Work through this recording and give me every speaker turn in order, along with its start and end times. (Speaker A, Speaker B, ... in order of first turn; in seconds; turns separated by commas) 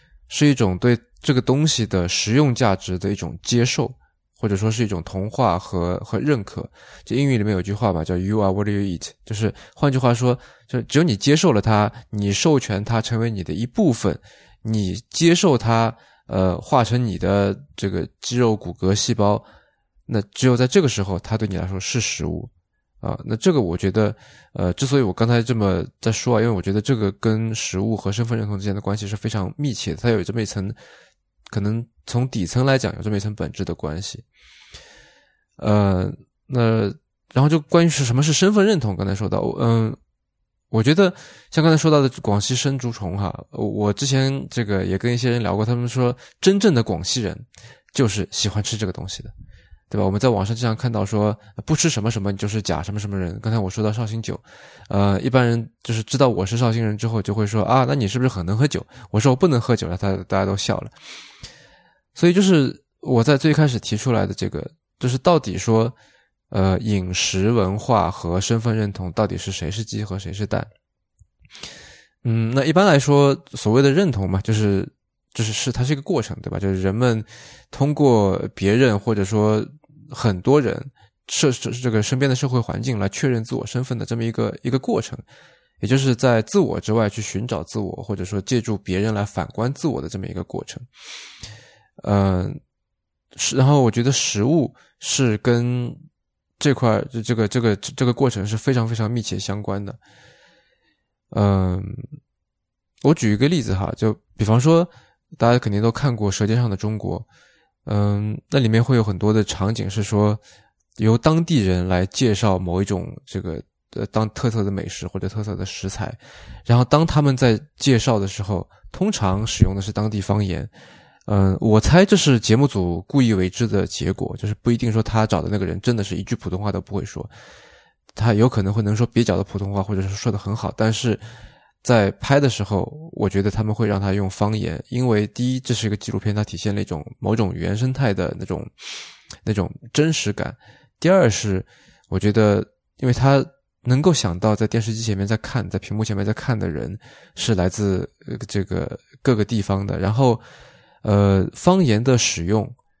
Speaker A: 0.3-19.5, Speaker A: 20.1-30.8, Speaker A: 31.5-34.2, Speaker A: 35.6-40.0, Speaker A: 40.7-49.3, Speaker A: 49.9-60.9, Speaker A: 62.1-66.0, Speaker A: 66.5-70.7, Speaker A: 72.2-85.2, Speaker A: 85.8-90.9, Speaker A: 92.0-92.6, Speaker A: 93.3-96.0, Speaker A: 96.6-100.0, Speaker A: 101.3-102.2, Speaker A: 103.0-107.2, Speaker A: 107.8-110.4, Speaker A: 111.0-120.7, Speaker A: 121.3-127.3, Speaker A: 128.1-131.2, Speaker A: 131.8-138.7, Speaker A: 139.4-150.4, Speaker A: 151.0-152.7